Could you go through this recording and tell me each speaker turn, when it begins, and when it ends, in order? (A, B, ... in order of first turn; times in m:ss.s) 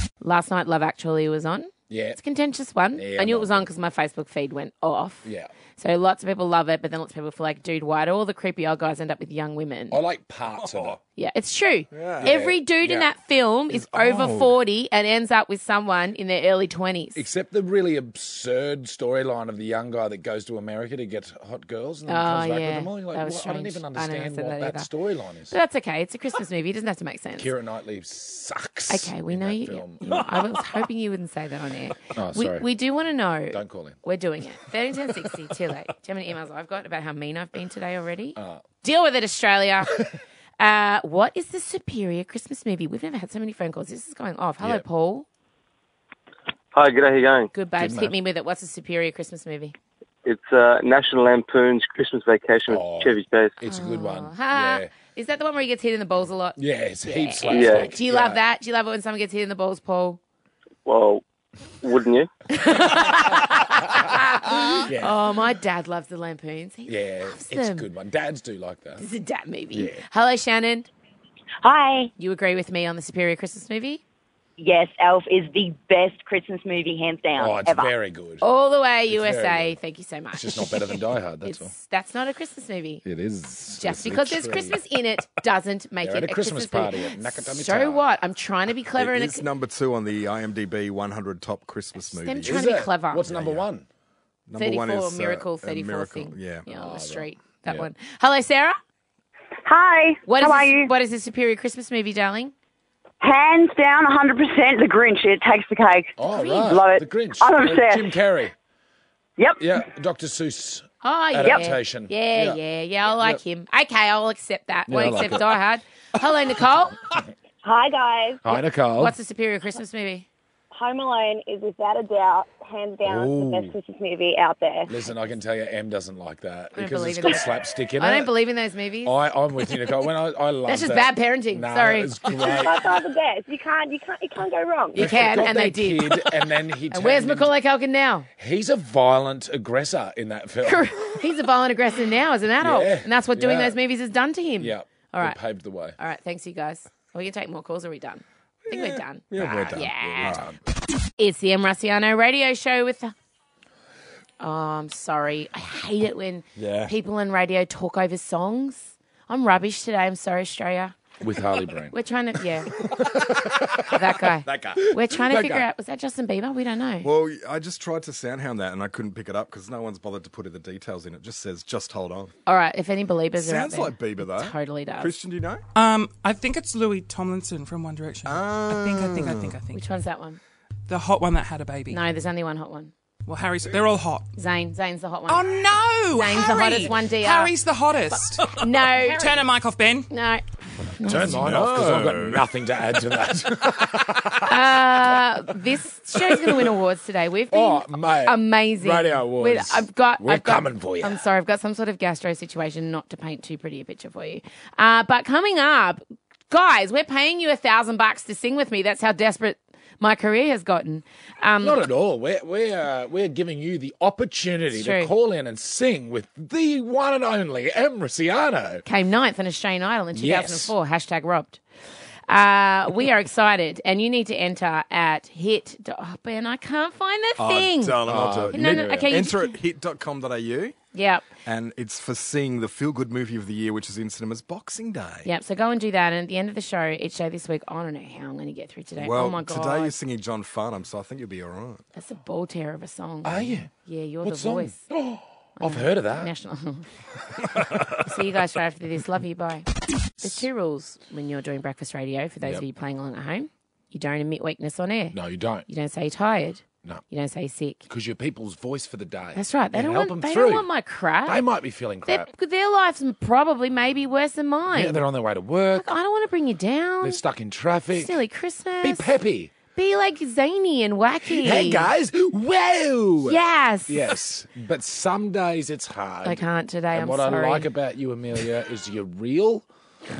0:00.2-0:05.2 A
0:01.9-0:02.2 B
0:02.9-0:03.7 B
0:05.2-0:05.5 B
0:05.8-0:10.0 A
0:09.9-0:11.0 B
0:10.6-0:11.0 C
0:11.2-0:17.2 A
0:11.9-0:12.3 C
0:12.2-0:13.1 B
0:13.7-0:14.5 C
0:17.2-0:25.6 B
0:22.1-0:24.9 A
0:25.5-0:27.5 A
0:27.4-0:30.2 B
0:28.9-0:40.0 A
0:32.1-0:32.7 B
0:33.5-0:34.0 B
0:38.4-0:38.6 B
0:40.6-0:45.3 A
0:46.7-0:47.5 D
0:47.5-0:49.7 A
0:47.8-0:48.2 B
0:50.2-0:53.5 D
0:52.7-0:54.9 B
0:53.6-1:00.2 A
0:56.6-0:58.4 B
0:57.5-0:57.9 D
1:00.8-1:01.2 D
1:01.8-1:02.3 D
1:02.5-1:07.9 A
1:04.9-1:05.2 B
1:06.9-1:09.0 B
1:09.0-1:10.9 A
1:09.7-1:10.0 B
1:11.6-1:12.1 E
1:12.2-1:14.0 A
1:14.6-1:17.9 E
1:17.4-1:18.4 B
1:18.4-1:23.0 A
1:19.1-1:19.8 B
1:20.3-1:21.7 B
1:23.0-1:24.8 B
1:23.7-1:29.4 A
1:26.0-1:28.1 B
1:29.0-1:33.6 C
1:32.1-1:33.2 A
1:32.4-1:33.8 B
1:34.5-1:36.7 C
1:34.6-1:38.8 A
1:36.7-1:37.9 B
1:39.7-1:40.2 F
1:40.2-1:42.5 A
1:40.3-1:40.9 E
1:43.2-1:48.1 E
1:46.2-1:48.5 B
1:46.2-1:46.7 A
1:49.6-1:52.6 B
1:51.0-1:57.0 A
1:54.9-1:55.4 B
1:57.6-1:58.4 F
1:58.4-1:59.1 B
1:58.6-2:00.2 A
2:00.7-2:04.9 F
2:03.0-2:03.7 B
2:04.9-2:08.3 B
2:06.7-2:09.1 A
2:09.0-2:12.7 B
2:10.6-2:12.2 A
2:12.3-2:15.1 F
2:14.9-2:16.3 A
2:15.0-2:17.5 B
2:16.9-2:18.3 A
2:18.4-2:20.9 B
2:20.6-2:25.4 A
2:22.6-2:23.8 B
2:24.6-2:26.0 B
2:26.0-2:30.4 A
2:28.7-2:30.5 C
2:30.1-2:30.5 B
2:31.2-2:33.1 A
2:34.4-2:41.0 A
2:36.6-2:36.9 C
2:41.2-2:41.9 B
2:41.9-2:42.7 A
2:42.9-2:43.8 B
2:43.8-2:47.1 A
2:44.4-2:44.9 C
2:45.2-2:45.7 B
2:47.0-2:52.3 C
2:52.4-2:55.2 A
2:53.3-2:55.6 C
2:55.7-2:59.8 G
2:58.2-2:59.6 C
2:59.7-3:00.4 A
3:00.9-3:02.0 G
3:01.9-3:02.9 A
3:03.2-3:04.3 G
3:04.3-3:05.5 A
3:05.3-3:10.1 G
3:06.1-3:07.5 A
3:08.1-3:09.4 A
3:10.1-3:11.5 A
3:11.0-3:14.9 B
3:11.4-3:12.4 C
3:14.4-3:31.8 A
3:16.3-3:16.6 B
3:17.5-3:21.2 B
3:31.6-3:38.8 B
3:34.7-3:35.1 A
3:38.8-3:41.6 A
3:40.1-3:40.7 B
3:42.3-3:49.6 A
3:47.4-3:50.7 C
3:48.0-3:49.1 B
3:50.9-3:51.2 A
3:51.4-3:55.3 C
3:55.2-3:59.9 A
3:59.0-4:01.8 C
4:01.9-4:04.8 A
4:03.2-4:03.7 B
4:04.2-4:06.3 B
4:05.6-4:06.9 A
4:08.0-4:09.7 A
4:10.2-4:17.8 A
4:15.1-4:15.6 B
4:17.9-4:20.7 B
4:19.3-4:21.4 A
4:21.2-4:22.3 B
4:22.0-4:25.0 A
4:24.7-4:25.9 B
4:25.8-4:27.2 A
4:27.0-4:28.2 B
4:27.9-4:29.1 A
4:28.8-4:29.5 B
4:29.7-4:31.9 A
4:31.2-4:39.6 B
4:33.2-4:34.0 A
4:36.2-4:37.7 A